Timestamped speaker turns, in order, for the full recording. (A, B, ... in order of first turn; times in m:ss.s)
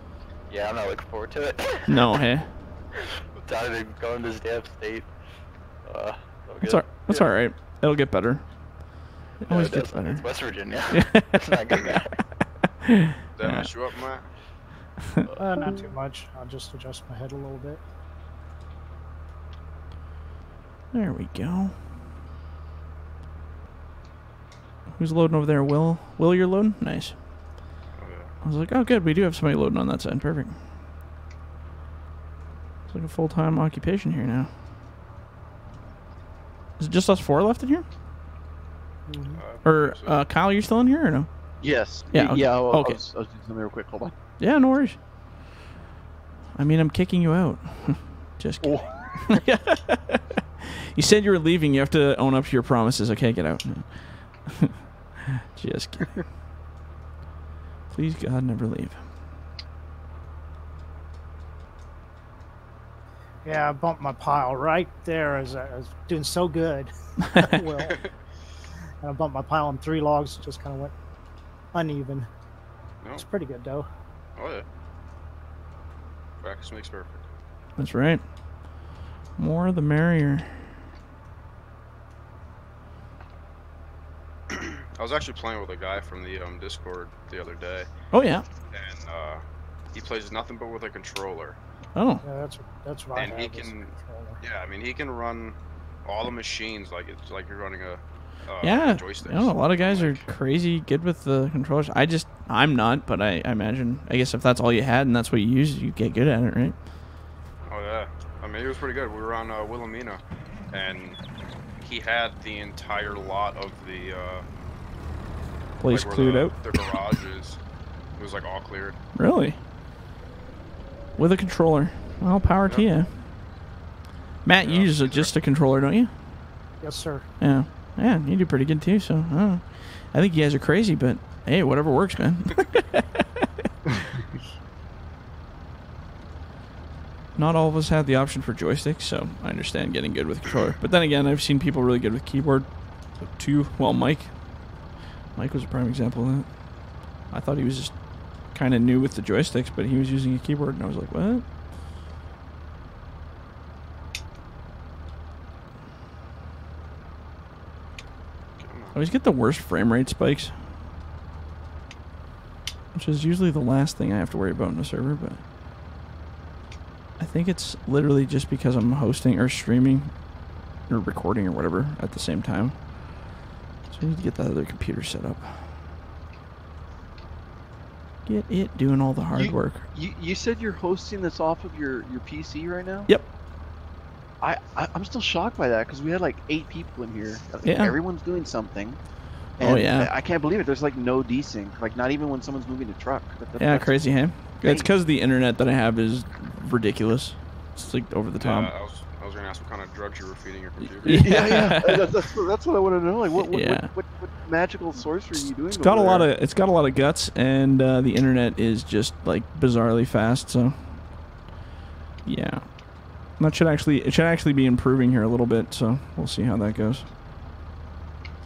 0:00.5-0:02.1 A
0:01.9-0:02.5 B
0:03.3-0:05.1 A
0:05.8-0:07.3 A
0:06.6-0:10.3 B
0:09.4-0:12.2 A
0:10.9-0:11.6 B
0:12.8-0:13.7 B
0:13.3-0:14.3 C
0:15.3-0:15.8 A
0:15.4-0:17.8 D
0:20.9-0:21.8 B
0:24.9-0:27.2 B
0:28.0-0:28.3 C
0:28.4-0:30.6 B
0:32.9-0:34.5 B
0:36.8-0:37.8 B
0:39.1-0:39.4 D
0:39.3-0:40.2 C
0:39.6-0:41.3 B
0:41.6-0:44.1 E
0:42.1-0:43.0 B
0:44.4-0:45.0 B
0:46.5-0:56.3 B
0:48.6-0:49.4 E
0:57.9-0:59.0 B
1:03.4-1:08.1 D
1:09.0-1:10.9 D
1:11.7-1:12.3 D
1:13.1-1:13.9 D
1:14.4-1:14.6 C
1:16.4-1:17.2 C
1:17.8-1:18.8 B
1:19.4-1:20.8 B
1:24.5-1:27.9 C
1:28.1-1:28.4 B
1:28.7-1:29.4 C
1:29.9-1:31.6 C
1:31.9-1:32.2 B
1:32.2-1:34.4 D
1:33.1-1:40.2 C
1:38.6-1:46.8 B
1:47.7-1:51.2 C
1:51.8-1:54.4 C
1:55.8-1:57.2 B
1:55.9-1:57.6 C
1:58.2-1:59.0 C
1:59.1-1:59.6 B
2:01.2-2:03.2 B
2:02.6-2:02.9 C
2:04.4-2:06.1 B
2:04.6-2:05.3 C
2:06.8-2:07.3 D
2:07.4-2:13.4 B
2:17.3-2:31.4 B
2:38.6-2:39.0 C
2:38.9-2:40.6 B
2:42.9-2:45.4 B
2:47.2-2:50.3 B
2:50.8-2:53.4 B
2:53.9-2:55.8 B
2:58.2-2:59.8 B
2:59.3-3:03.1 E
3:04.4-3:14.9 E
3:07.6-3:08.0 B
3:09.6-3:10.1 B
3:13.6-3:18.7 B
3:18.4-3:21.6 C
3:21.0-3:22.1 B
3:21.1-3:26.3 E
3:23.4-3:23.9 B
3:25.3-3:31.3 B
3:32.2-3:37.1 B